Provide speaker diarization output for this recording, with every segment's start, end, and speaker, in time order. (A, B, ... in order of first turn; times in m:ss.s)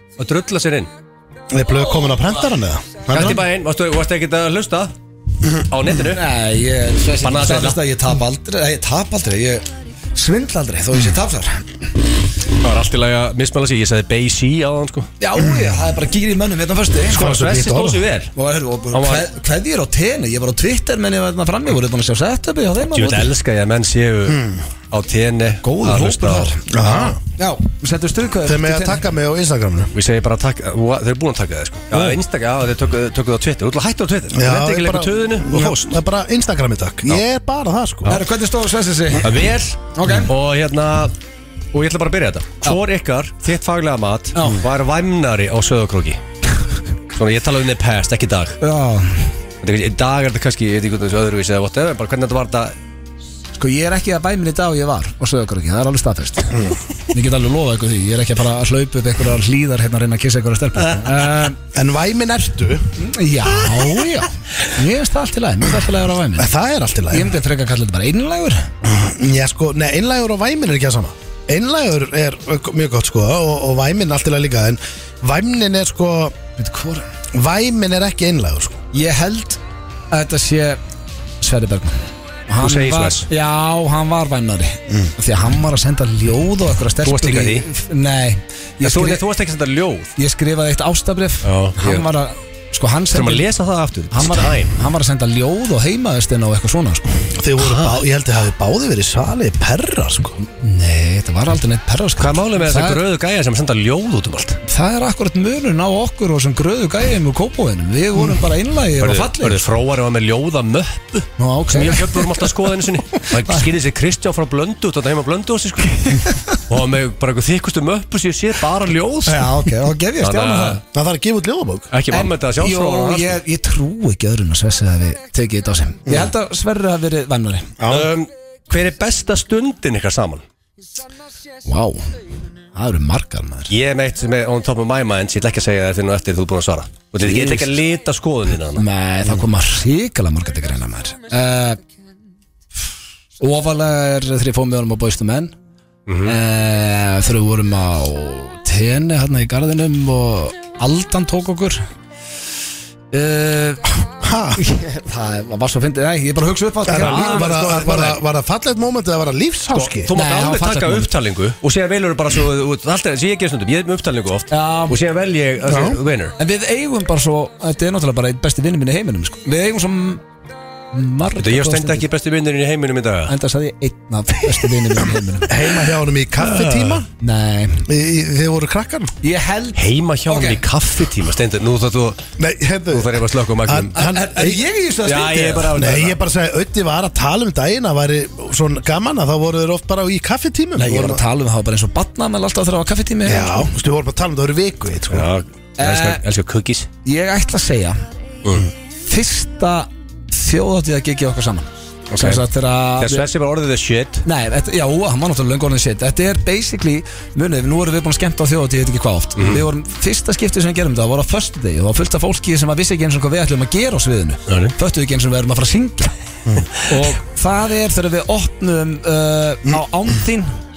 0:00.2-0:00.9 A
0:01.5-0:03.4 B
0:03.1-0:04.9 A
0:03.1-0:03.4 C
0:05.6-0:06.2 A
0:06.1-0:11.7 C
0:07.2-0:07.8 A
0:12.6-0:15.1 A
0:15.2-0:17.2 C
0:17.1-0:18.3 A
0:17.1-0:18.0 B
0:18.4-0:23.3 C
0:18.9-0:19.3 A
0:22.9-0:26.8 A
0:24.3-0:24.6 B
0:25.6-0:29.0 C
0:26.7-0:27.2 B
0:28.4-0:29.9 B
0:29.9-0:36.0 A
0:34.3-0:38.2 B
0:38.1-0:39.3 C
0:39.2-0:41.1 A
0:39.9-0:40.3 C
0:41.7-0:46.2 A
0:44.4-0:44.6 C
0:47.1-0:48.6 A
0:48.6-0:49.3 C
0:49.6-0:52.8 A
0:53.6-1:01.6 C
1:01.7-1:02.9 B
1:03.0-1:06.5 C
1:06.4-1:07.3 B
1:07.1-1:08.7 C
1:08.8-1:16.4 B
1:16.6-1:17.1 C
1:17.3-1:18.8 B
1:18.9-1:20.8 C
1:21.4-1:29.2 C
1:22.6-1:23.3 A
1:27.0-1:27.7 A
1:28.8-1:30.1 A
1:30.2-1:33.5 C
1:31.4-1:32.1 A
1:33.1-1:34.8 A
1:34.1-1:37.1 C
1:37.3-1:40.4 B
1:40.6-1:43.0 C
1:42.2-1:44.6 A
1:44.6-1:49.6 C
1:49.0-1:59.6 A
1:51.4-1:52.5 C
1:59.3-2:00.8 C
2:00.2-2:00.8 A
2:00.9-2:01.9 B
2:01.9-2:03.4 A
2:02.1-2:07.7 C
2:07.8-2:08.1 B
2:07.9-2:10.4 A
2:11.6-2:12.2 C
2:12.7-2:13.7 C
2:13.7-2:18.8 A
2:17.2-2:17.8 C
2:18.8-2:21.8 C
2:23.4-2:25.5 C
2:26.1-2:26.4 A
2:26.2-2:31.8 C
2:33.1-2:37.9 C
2:34.2-2:34.6 B
2:36.9-2:40.1 B
2:37.0-2:38.2 A
2:39.7-2:46.4 A
2:40.1-2:41.1 C
2:44.5-2:45.0 C
2:45.6-2:46.0 B
2:46.4-2:50.2 C
2:50.9-2:52.1 C
2:51.4-2:53.3 A
2:53.3-2:55.6 C
2:55.5-2:57.1 B
2:56.5-2:57.0 A
2:57.2-2:57.9 C
2:57.9-2:59.1 B
2:59.2-3:00.6 C
2:59.8-3:02.2 A
3:02.4-3:04.6 B
3:02.9-3:04.1 A
3:03.9-3:05.8 C
3:05.0-3:06.2 A
3:05.7-3:11.2 B
3:10.8-3:13.7 C
3:13.2-3:15.3 B
3:15.1-3:16.9 A
3:15.8-3:16.2 C
3:17.0-3:18.0 C
3:19.0-3:23.3 C
3:22.1-3:22.4 A
3:23.0-3:24.2 A
3:24.2-3:36.1 C
3:29.4-3:29.6 A
3:34.5-3:34.8 A
3:36.8-3:40.6 C